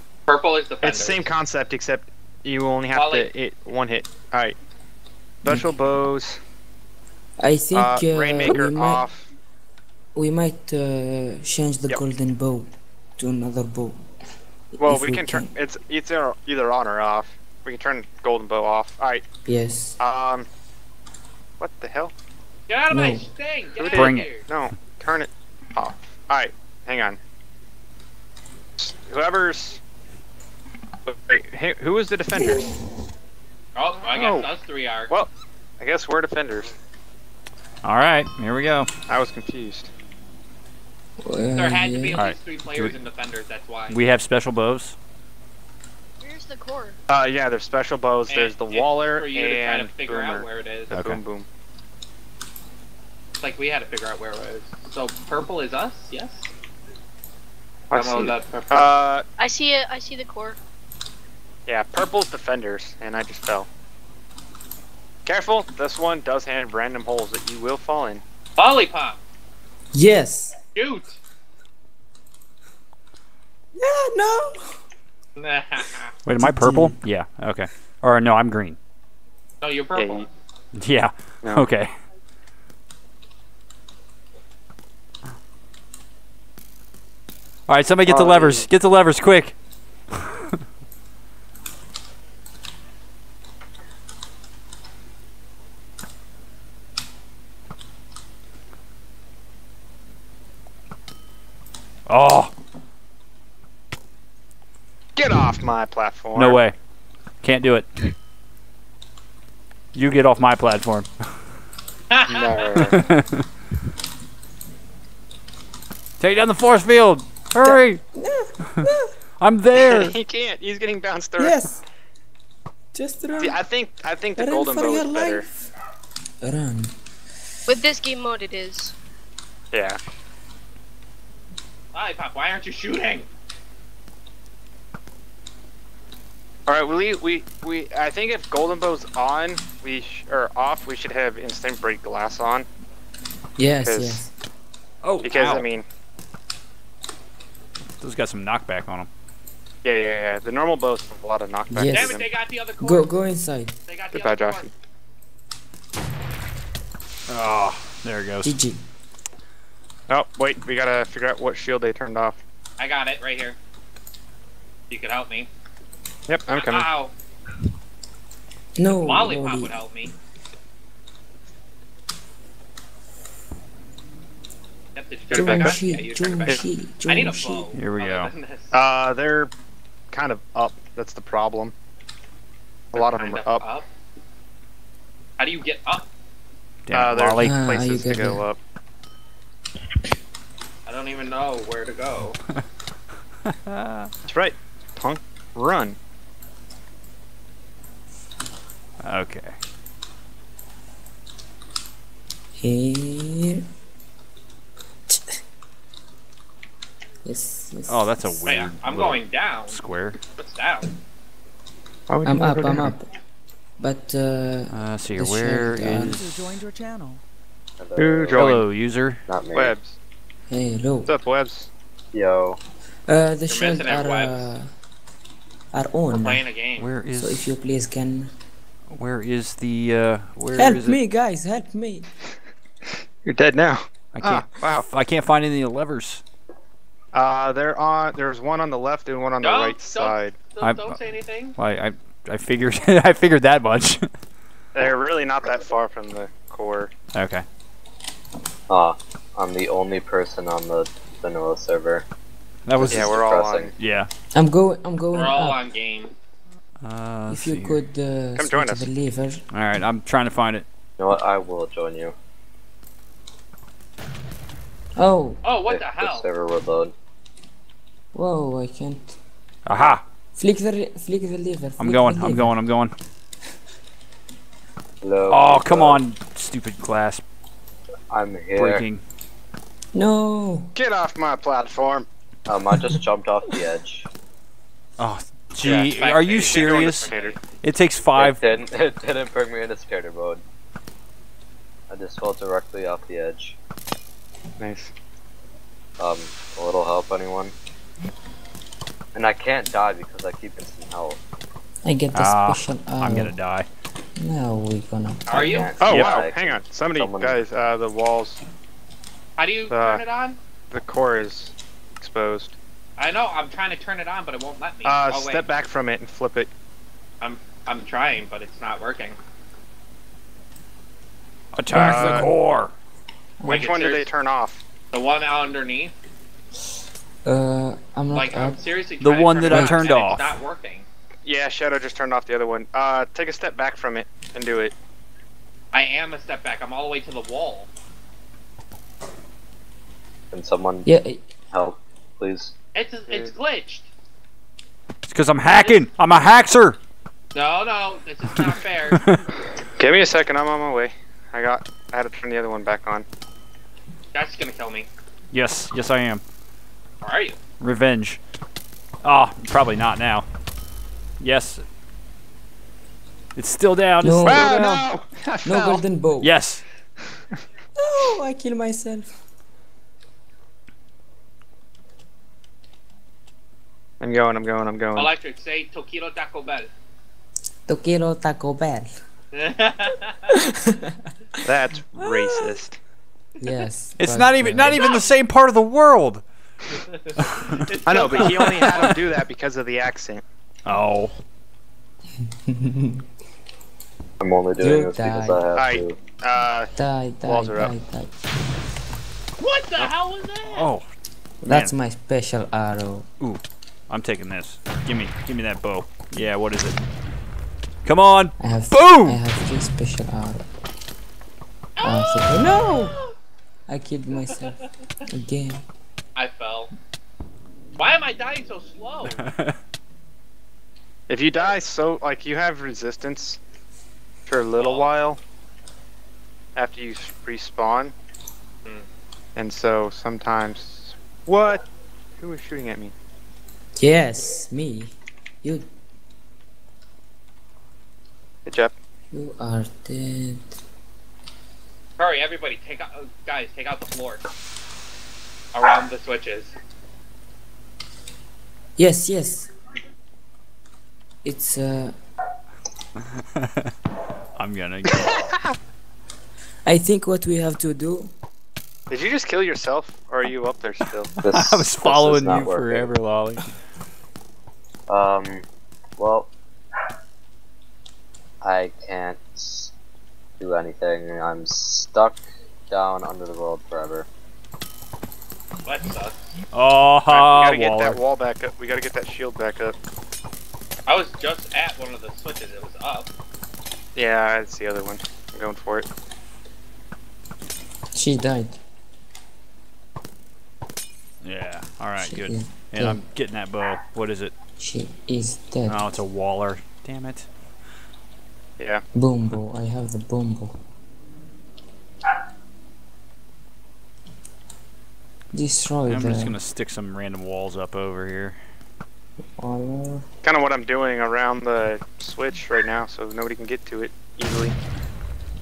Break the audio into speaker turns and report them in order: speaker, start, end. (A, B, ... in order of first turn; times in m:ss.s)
0:00.3-0:01.2 A
0:00.8-0:04.6 B
0:02.9-0:03.3 A
0:05.4-0:06.4 B
0:07.4-0:09.0 C
0:07.7-0:09.3 B
0:10.2-0:14.1 C
0:14.8-0:15.5 C
0:14.8-0:19.2 B
0:19.4-0:20.0 C
0:20.0-0:20.5 B
0:21.6-0:22.1 B
0:22.7-0:24.5 A
0:22.9-0:23.3 C
0:23.8-0:27.2 B
0:23.9-0:24.4 D
0:28.8-0:29.8 B
0:31.1-0:32.7 B
0:33.8-0:35.2 A
0:34.1-0:34.5 B
0:35.8-0:36.7 B
0:37.8-0:38.9 D
0:39.1-0:39.9 B
0:41.2-0:42.2 C
0:41.6-0:44.0 A
0:42.2-0:43.0 D
0:43.9-0:45.0 D
0:46.2-0:47.0 E
0:47.1-0:51.5 B
0:48.3-0:51.0 A
0:50.9-0:51.2 D
0:53.4-0:56.5 A
0:57.9-0:58.9 A
0:57.9-0:59.2 B
0:59.4-1:00.6 E
1:01.7-1:03.7 B
1:05.3-1:08.2 B
1:08.6-1:09.2 A
1:09.9-1:10.6 C
1:10.8-1:11.2 A
1:13.8-1:14.8 C
1:15.4-1:16.1 A
1:16.2-1:18.8 D
1:16.4-1:17.0 C
1:19.6-1:20.3 A
1:20.0-1:20.3 B
1:20.8-1:21.9 D
1:21.4-1:21.7 B
1:27.7-1:29.6 D
1:28.0-1:28.7 B
1:42.1-1:42.5 D
1:45.2-1:46.6 B
1:46.3-1:46.8 D
1:47.4-1:48.1 D
1:49.9-1:51.1 D
1:52.1-1:52.9 A
1:52.3-1:53.0 B
1:52.9-1:53.4 D
1:56.2-1:58.0 D
1:57.6-1:59.1 C
1:59.4-2:00.2 D
1:59.9-2:01.6 B
2:01.4-2:01.8 C
2:02.9-2:03.6 C
2:03.4-2:05.4 B
2:04.4-2:05.7 C
2:06.4-2:07.0 C
2:07.7-2:08.9 E
2:09.7-2:10.0 B
2:11.9-2:13.3 A
2:16.7-2:22.7 B
2:23.6-2:24.3 C
2:23.8-2:24.2 B
2:25.0-2:25.7 D
2:25.2-2:25.8 B
2:28.0-2:29.1 D
2:29.8-2:32.2 B
2:31.7-2:32.2 C
2:31.9-2:33.1 A
2:32.8-2:33.7 C
2:33.9-2:34.7 A
2:34.1-2:34.7 B
2:37.3-2:38.5 D
2:38.4-2:38.8 C
2:40.1-2:42.4 B
2:42.8-2:43.6 A
2:44.9-2:45.5 A
2:46.3-2:46.9 B
2:46.5-2:47.1 A
2:48.8-2:49.8 C
2:49.0-2:50.1 A
2:55.0-2:58.8 A
2:55.3-2:57.7 C
2:55.3-2:55.8 B
2:57.7-2:58.3 D
2:58.7-2:59.5 B
3:00.1-3:01.7 B
3:02.9-3:03.6 B
3:02.9-3:03.9 A
3:05.4-3:06.1 A
3:06.9-3:07.6 D
3:06.9-3:08.6 B
3:07.4-3:08.4 C
3:10.9-3:12.4 A
3:13.4-3:14.1 D
3:14.2-3:16.0 B
3:19.0-3:19.6 D
3:22.6-3:23.6 C
3:25.1-3:25.4 C
3:27.2-3:28.6 C
3:27.9-3:30.2 D
3:28.5-3:29.8 A
3:30.3-3:30.9 A
3:32.1-3:32.9 B
3:32.2-3:33.1 C
3:33.8-3:36.3 C
3:34.7-3:37.2 D
3:37.8-3:38.6 F
3:38.0-3:38.7 B
3:38.3-3:39.2 D
3:39.3-3:39.8 F
3:39.5-3:40.0 B
3:40.5-3:41.2 C
3:41.1-3:41.7 B
3:42.1-3:42.6 F
3:43.1-3:44.7 C
3:43.5-3:44.5 A
3:45.7-3:46.4 C
3:46.1-3:46.9 A
3:46.8-3:47.5 D
3:47.2-3:48.3 C
3:48.9-3:51.0 D
3:50.6-3:52.1 C
3:53.2-3:54.9 B
3:54.1-3:56.2 D
3:57.1-4:00.4 B
3:59.4-4:01.6 A
4:00.6-4:04.1 D
4:04.7-4:06.9 B
4:07.1-4:07.4 D
4:08.7-4:12.1 F
4:12.7-4:13.2 D
4:12.8-4:13.7 F
4:12.8-4:13.8 B
4:13.8-4:14.1 D
4:14.3-4:15.6 C
4:15.1-4:16.1 A
4:16.8-4:17.8 D
4:17.3-4:19.4 C
4:18.4-4:18.9 B
4:19.5-4:20.6 D
4:21.0-4:22.2 F
4:25.0-4:25.4 C
4:25.4-4:26.3 A
4:25.7-4:26.9 F
4:28.1-4:29.2 C
4:29.7-4:30.0 D
4:30.4-4:32.5 C
4:31.8-4:32.9 D
4:35.0-4:36.0 F
4:35.3-4:37.2 D
4:38.1-4:38.9 F
4:38.6-4:39.0 D
4:39.9-4:40.7 C
4:40.8-4:42.1 B
4:42.5-4:44.1 F
4:45.0-4:48.4 D
4:45.6-4:47.4 B
4:45.7-4:47.4 A
4:48.2-4:50.4 F
4:51.9-4:53.6 F
4:54.6-4:54.9 B
4:56.0-4:57.5 F
4:59.1-5:01.2 F
5:01.8-5:03.3 C
5:02.1-5:03.7 D
5:04.2-5:05.8 C
5:05.3-5:05.8 A
5:05.3-5:07.4 F
5:05.8-5:08.4 B
5:05.8-5:06.2 D
5:09.4-5:10.4 A
5:09.7-5:10.0 B
5:10.7-5:12.6 B
5:13.0-5:15.4 A
5:14.8-5:16.5 B
5:17.2-5:19.2 A
5:21.6-5:22.7 D
5:21.7-5:22.3 C
5:21.8-5:22.3 B
5:23.4-5:23.7 C
5:23.4-5:24.6 B
5:23.5-5:24.1 A
5:24.9-5:25.9 A
5:27.2-5:28.6 C
5:28.1-5:30.9 A
5:29.0-5:30.3 D
5:29.5-5:29.8 C
5:31.2-5:34.8 B
5:35.7-5:37.7 A
5:40.3-5:40.9 F
5:40.9-5:41.2 C
5:41.5-5:42.5 F
5:42.8-5:43.9 A
5:43.1-5:43.3 B
5:45.1-5:46.8 D
5:45.5-5:45.8 A
5:47.3-5:49.1 A
5:48.9-5:49.2 D
5:49.8-5:53.1 B
5:54.1-5:54.9 A
5:55.3-5:56.2 D
5:57.0-5:57.4 A
5:57.6-5:58.2 D
5:59.0-6:00.3 D
6:01.2-6:01.6 D
6:03.4-6:04.6 D
6:04.0-6:04.9 C
6:04.2-6:05.8 B
6:05.4-6:06.3 C
6:06.2-6:06.6 D
6:07.8-6:09.2 C
6:14.0-6:15.1 B
6:15.0-6:16.7 A
6:17.7-6:18.9 C
6:19.3-6:20.2 A
6:20.3-6:21.4 C
6:21.4-6:22.8 B
6:23.4-6:25.0 C
6:24.0-6:26.2 D
6:26.9-6:28.9 A
6:27.2-6:29.1 D
6:27.9-6:30.2 B
6:30.7-6:31.1 D
6:32.2-6:33.0 C
6:34.2-6:36.0 F
6:34.6-6:35.4 C
6:35.6-6:36.7 B
6:36.8-6:38.1 C
6:37.2-6:37.7 B
6:39.4-6:40.7 A
6:40.5-6:40.8 D
6:41.4-6:43.1 C
6:41.5-6:41.7 D
6:43.2-6:46.8 D
6:47.8-6:49.2 D
6:48.4-6:50.5 C
6:51.8-6:53.1 A
6:51.8-6:53.0 C
6:53.7-6:55.7 C
6:56.2-6:56.7 A
6:57.8-6:59.3 A
6:59.1-6:59.6 D
7:01.1-7:03.4 B
7:04.3-7:05.2 B
7:04.6-7:04.9 A
7:06.6-7:07.9 B
7:09.4-7:11.6 B
7:12.2-7:12.9 B
7:13.8-7:15.7 C
7:18.5-7:18.8 B
7:19.1-7:20.6 C
7:22.0-7:24.3 A
7:25.5-7:26.5 A
7:28.8-7:29.5 C
7:31.2-7:32.0 C
7:33.2-7:33.7 D
7:34.4-7:35.3 D
7:35.0-7:35.5 B
7:36.6-7:38.1 C
7:38.9-7:41.1 B
7:41.2-7:43.5 D
7:41.2-7:42.9 F
7:44.9-7:45.5 F
7:46.0-7:46.3 F
7:48.4-7:49.7 F
7:50.4-7:54.1 F
7:55.6-7:56.4 A
7:56.5-7:58.0 D
7:57.1-7:59.8 B
8:00.9-8:03.1 A
8:04.0-8:05.9 B
8:07.9-8:08.6 C
8:11.2-8:14.3 D
8:12.0-8:13.0 C
8:14.6-8:16.0 C
8:15.7-8:17.3 D
8:19.0-8:20.6 C
8:25.3-8:26.4 C
8:25.9-8:28.4 D
8:29.2-8:30.1 C
8:30.2-8:34.6 B